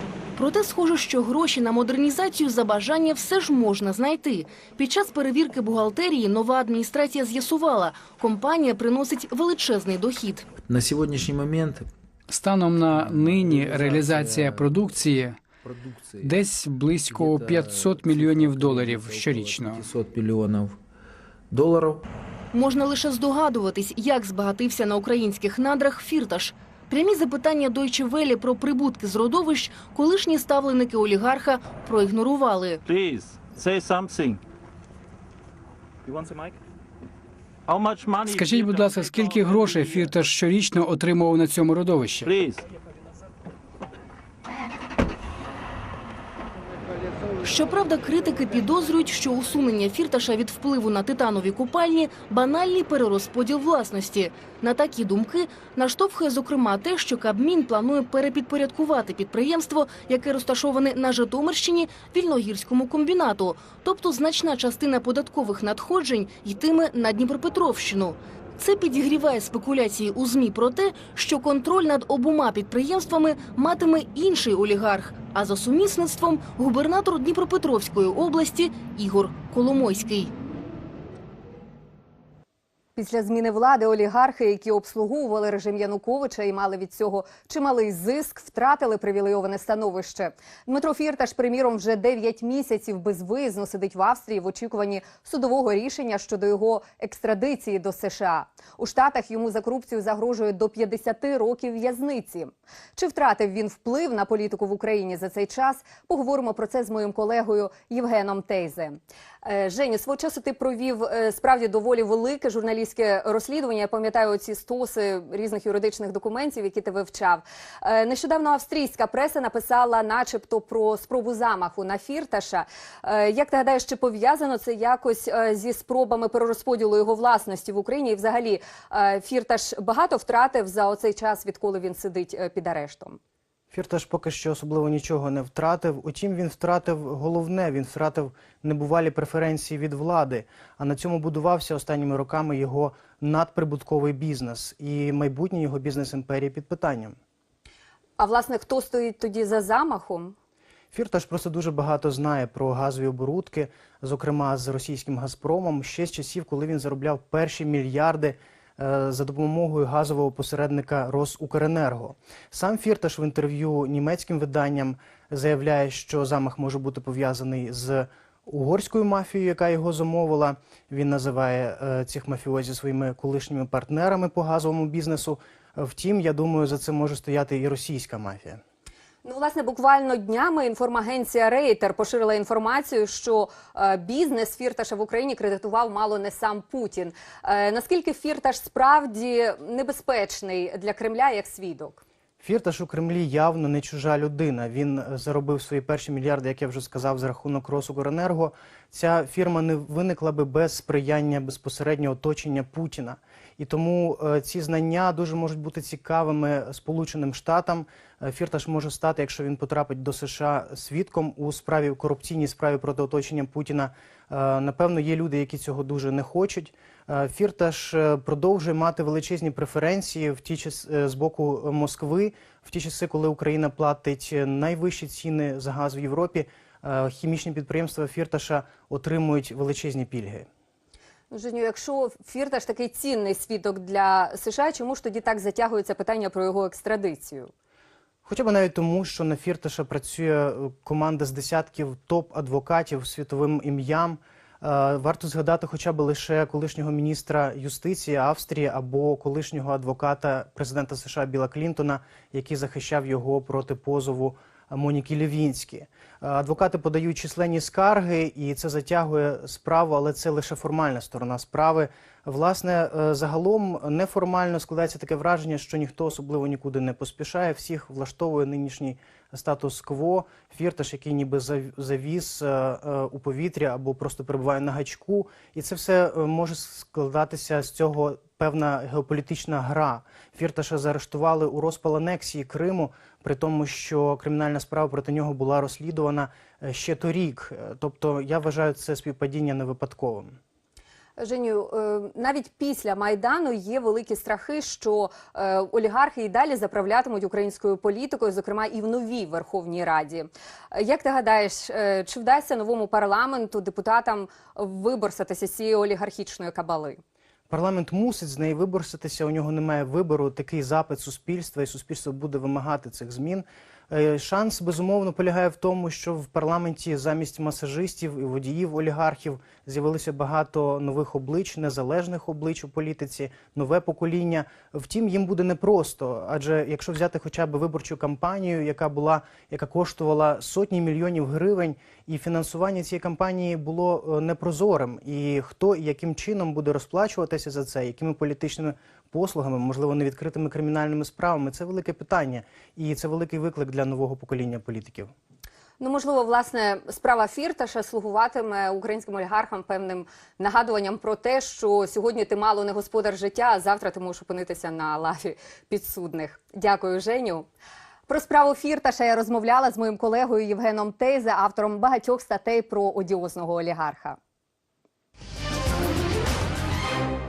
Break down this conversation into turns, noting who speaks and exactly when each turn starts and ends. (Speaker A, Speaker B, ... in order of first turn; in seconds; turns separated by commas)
Speaker A: 0.4-10.5, Speaker B: 10.7-11.9, Speaker C: 12.3-15.4, Speaker B: 12.9-14.8, Speaker B: 15.6-16.4, Speaker C: 16.2-19.9, Speaker B: 17.0-20.8, Speaker B: 21.5-22.0, Speaker A: 22.5-32.8, Speaker D: 32.9-34.4, Speaker D: 36.0-36.6, Speaker D: 37.7-40.1, Speaker C: 38.3-42.3, Speaker D: 42.2-42.6, Speaker A: 47.4-80.3, Speaker E: 83.0-133.2, Speaker F: 133.7-147.2, Speaker E: 148.2-150.4, Speaker F: 150.9-178.6, Speaker E: 179.2-192.0, Speaker F: 192.4-230.5, Speaker E: 231.3-237.5, Speaker F: 238.2-290.4, Speaker E: 291.2-307.0, Speaker F: 307.5-345.1, Speaker E: 345.8-357.5, Speaker E: 358.1-364.2